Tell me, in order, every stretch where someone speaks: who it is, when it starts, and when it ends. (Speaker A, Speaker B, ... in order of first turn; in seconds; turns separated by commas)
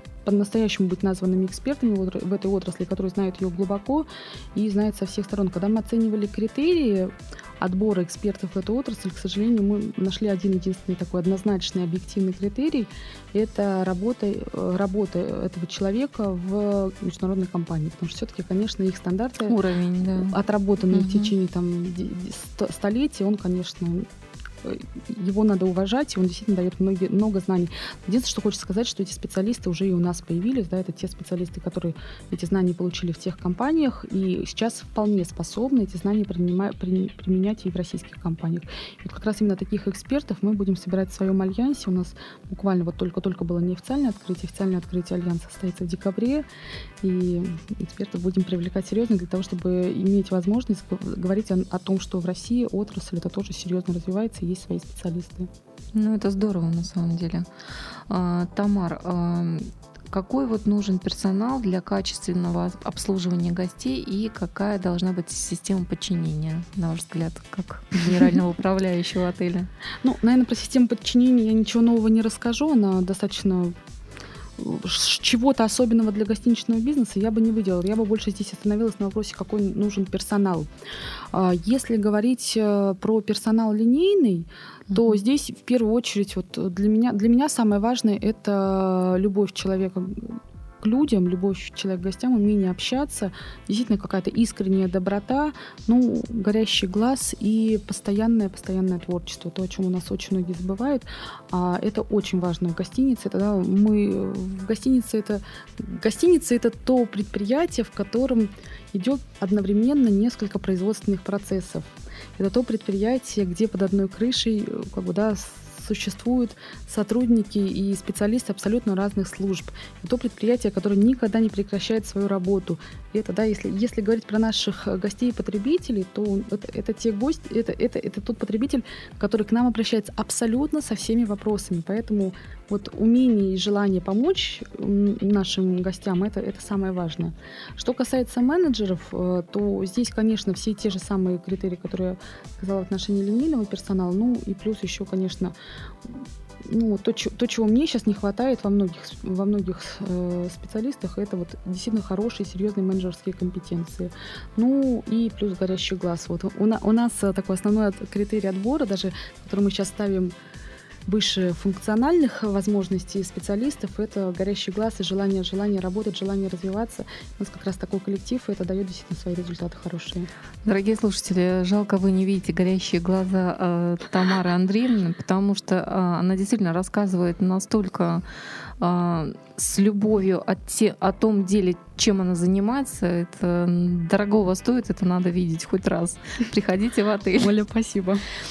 Speaker A: 0.2-19.6, Speaker B: 19.4-20.4, Speaker A: 20.2-24.1, Speaker B: 20.9-21.3, Speaker A: 24.6-46.4, Speaker A: 47.0-55.5, Speaker B: 55.9-57.5, Speaker B: 58.1-69.7, Speaker A: 70.0-73.7, Speaker A: 74.6-80.7, Speaker A: 81.3-160.3, Speaker A: 161.1-170.3, Speaker B: 170.6-178.2, Speaker B: 178.8-187.5, Speaker A: 187.4-188.2